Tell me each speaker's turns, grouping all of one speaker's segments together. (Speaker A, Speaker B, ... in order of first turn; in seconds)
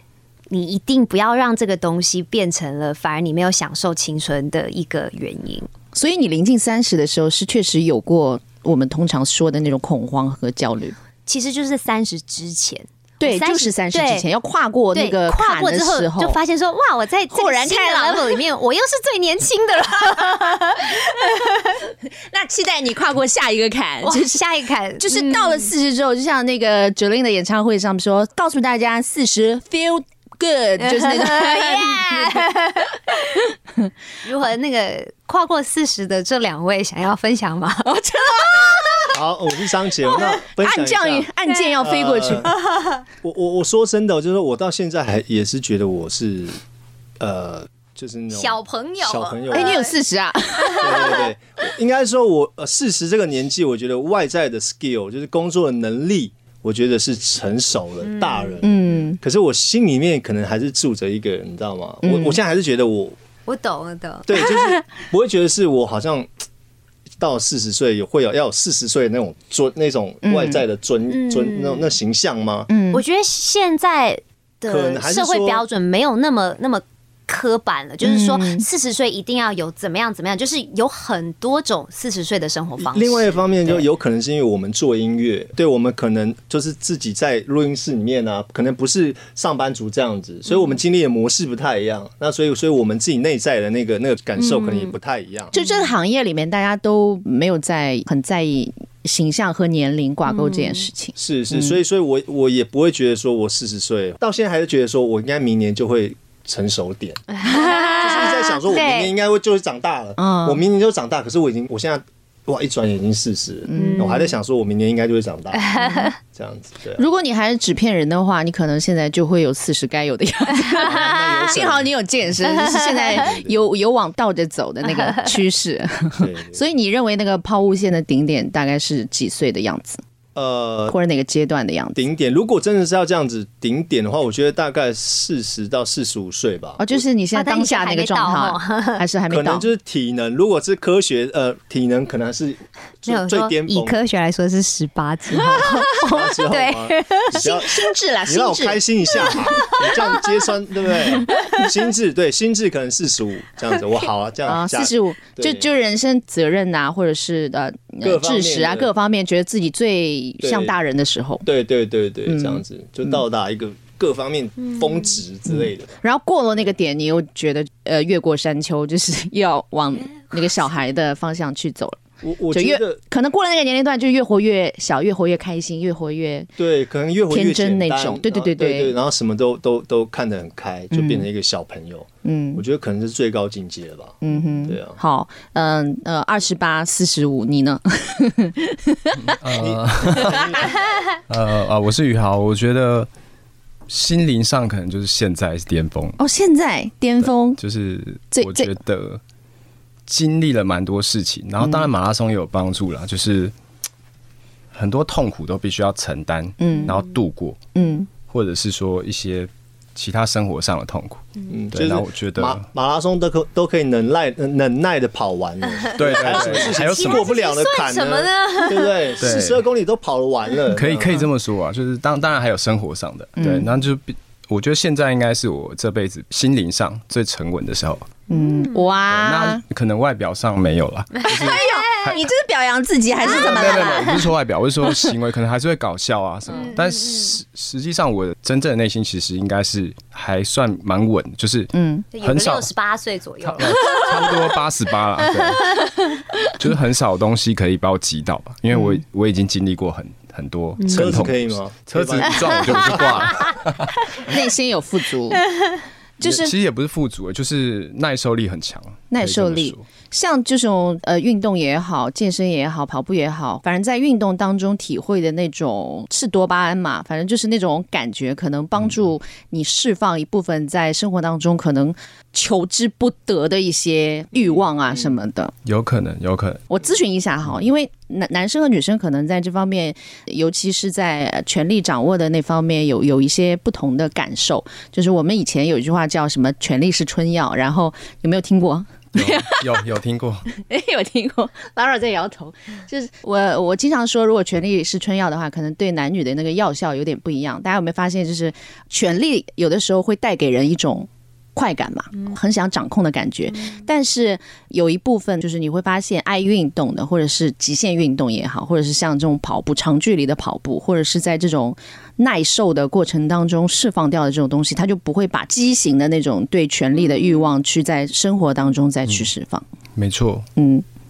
Speaker A: 0.5-5.7, 11.3-14.3, 14.9-21.6, 24.0-25.7, 31.0-32.9, 34.2-37.9, 48.3-50.0, 50.6-51.2, 58.0-58.6, 63.5-64.4, 71.1-72.0, 72.9-83.8, 94.4-94.9, 95.6-95.9, 100.3-100.9, 107.3-109.1, 113.7-114.3, 115.5-116.2, 122.8-123.2, 124.8-125.3, 137.3-139.0, 143.1-147.4, 164.6-165.1, 215.8-219.2, 228.3-228.9, 231.2-231.7, 236.5-237.3, 242.1-244.5, 250.8-251.1, 252.9-253.5
Speaker B: 5.9-10.9, 13.2-16.4, 17.3-18.4, 22.3-24.4, 25.0-32.5, 37.9-39.1, 40.6-42.5, 49.5-51.1, 58.6-59.2, 62.0-62.4, 70.2-70.6, 72.7-73.0, 78.0-78.7, 95.5-101.8, 110.2-110.6, 113.7-114.2, 117.0-130.0, 130.9-132.0, 136.8-139.7, 145.5-145.8, 147.4-149.7, 154.5-161.4, 162.3-163.2, 165.5-176.5, 177.3-178.9, 180.9-181.3, 182.2-182.6, 184.2-189.4, 196.2-197.6, 198.3-198.7, 201.6-201.9, 206.6-207.0, 207.8-208.1, 223.4-223.8, 228.3-229.6, 231.2-234.3, 234.8-235.1, 241.7-242.1, 248.7-249.0, 254.2-255.4, 256.2-256.5, 259.1-275.5, 276.7-289.8, 290.5-319.6, 320.6-320.8
Speaker C: 39.1-42.5, 43.2-46.6, 47.2-49.9, 50.8-63.2, 64.3-66.3, 67.2-72.7, 74.7-75.6, 82.8-95.5, 101.2-117.0, 120.8-122.0, 123.2-123.5, 126.2-126.6, 130.3-131.0, 132.0-137.0, 139.3-144.0, 145.9-155.7, 158.0-158.9, 160.4-160.8, 161.4-165.9, 172.2-173.0, 176.6-185.0, 189.6-190.9, 211.5-221.3, 250.9-253.4
Speaker D: 189.2-190.7, 191.3-193.1, 193.9-196.2, 197.2-199.2, 200.1-203.5, 204.7-207.6, 208.2-212.7, 215.9-217.3, 219.2-219.6, 220.7-228.1, 229.1-232.3, 233.2-242.7, 243.4-245.8, 246.6-253.9, 256.2-259.8, 275.6-276.6, 289.1-290.5, 320.0-320.5